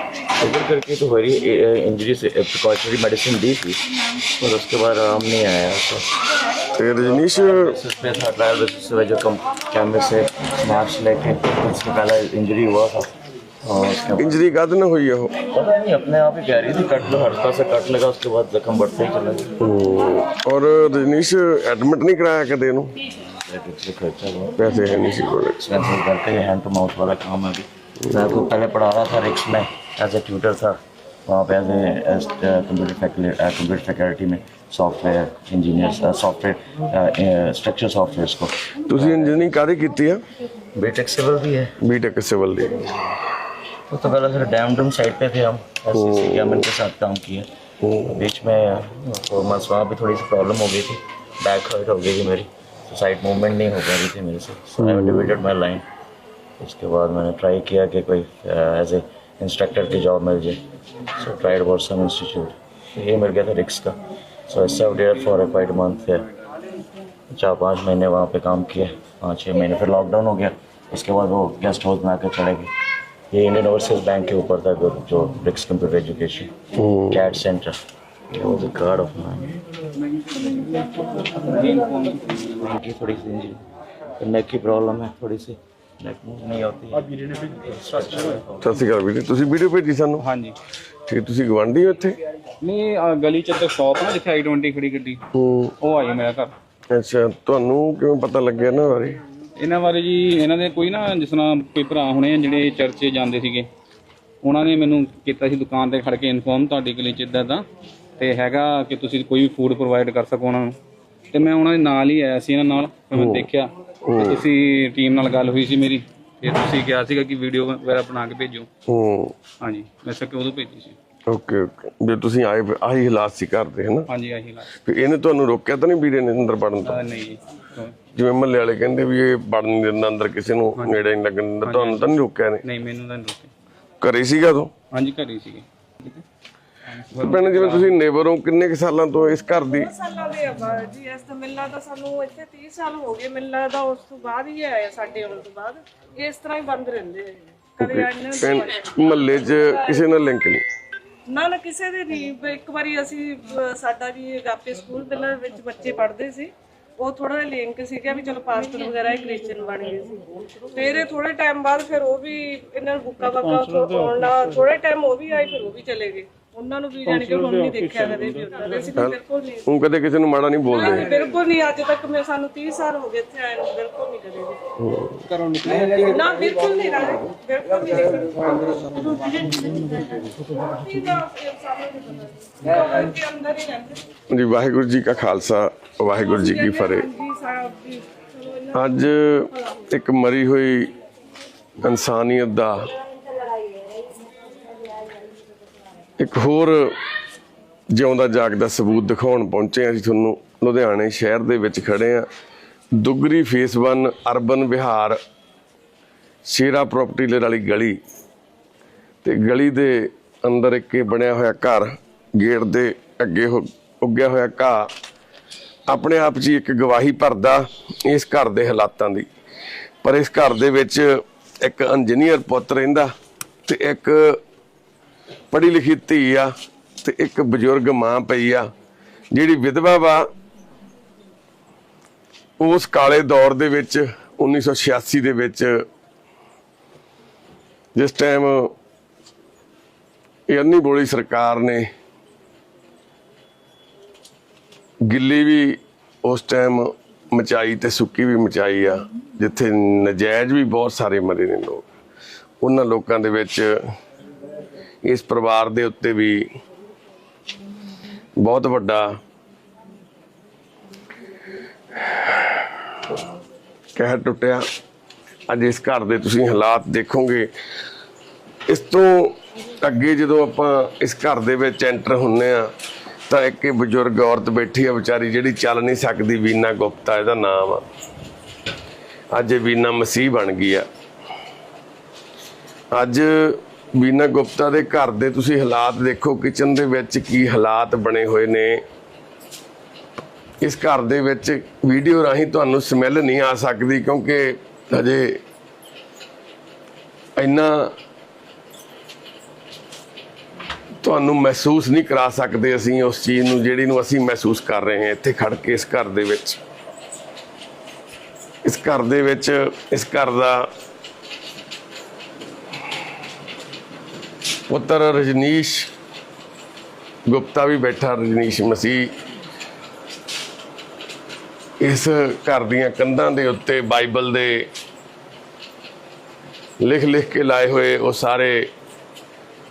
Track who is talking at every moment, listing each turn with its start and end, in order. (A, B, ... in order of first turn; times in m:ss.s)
0:00.4-0:06.1 A
0:06.8-0:07.8 B
0:07.0-0:14.4 A
0:14.2-0:15.4 B
0:15.5-0:19.6 A
0:19.6-0:22.9 B
0:23.3-0:39.5 A
0:24.6-0:25.6 B
0:38.9-0:40.2 B
0:40.7-0:41.8 A
0:41.8-0:42.9 B
0:43.9-0:47.5 A
0:45.9-0:46.7 B
0:47.8-0:48.2 B
0:48.1-0:55.8 A
0:54.8-0:55.4 B
0:56.6-1:06.2 A
1:07.3-1:12.7 A
1:13.3-1:16.6 A
1:16.8-1:17.4 B
1:17.1-1:19.5 A
1:20.2-1:22.6 C
1:22.5-1:23.6 A
1:24.2-1:28.6 A
1:28.6-1:30.2 B
1:30.2-1:30.6 C
1:31.1-1:32.2 B
1:32.6-1:35.2 C
1:35.3-1:35.8 B
1:35.8-1:36.5 C
1:36.9-1:39.2 B
1:39.6-1:43.7 C
1:44.4-1:47.6 C
1:48.2-1:50.8 C
1:51.3-1:58.7 C
1:53.2-1:53.5 B
1:54.0-1:54.4 B
1:58.9-1:59.4 B
1:59.6-2:01.0 C
2:01.3-2:04.1 B
2:04.1-2:04.7 C
2:04.8-2:07.0 B
2:06.8-2:07.9 C
2:08.1-2:12.6 B
2:11.6-2:13.5 C
2:14.0-2:14.7 B
2:14.9-2:16.2 C
2:16.9-2:17.9 C
2:17.2-2:19.9 B
2:19.7-2:30.0 D
2:27.8-2:30.6 B
2:31.3-2:40.2 D
2:40.7-2:49.7 D
2:49.0-2:51.2 B
2:50.7-2:54.6 D
2:54.8-2:55.3 B
2:55.3-2:56.1 C
2:55.8-3:04.0 D
3:04.3-3:07.1 B
3:06.1-3:09.6 D
3:08.7-3:10.9 B
3:11.8-3:12.9 B
3:16.2-3:17.0 B
3:17.9-3:22.3 B
3:22.9-3:25.2 B
3:26.5-3:28.0 B
3:29.2-3:34.9 B
3:35.9-3:39.3 B
3:40.0-3:43.1 B
3:43.7-3:44.4 B
3:45.5-3:48.7 B
3:49.3-3:50.3 B
3:52.6-3:55.9 B
3:58.0-3:58.7 B
4:00.5-4:01.9 B
4:05.1-4:11.9 B
4:12.6-4:14.0 B
4:15.0-4:16.5 B
4:18.4-4:19.2 B
4:22.0-4:22.7 B
4:24.0-4:24.7 B
4:25.5-4:27.5 B
4:28.7-4:32.7 B
4:33.3-4:37.8 B
4:39.3-4:40.9 B
4:42.9-4:48.8 B
4:50.6-4:55.4 B
4:57.4-4:57.9 B
5:01.0-5:06.6 B
5:08.6-5:10.7 B
5:14.7-5:15.9 B
5:17.3-5:19.1 B
5:21.8-5:24.7 B
5:26.8-5:28.7 B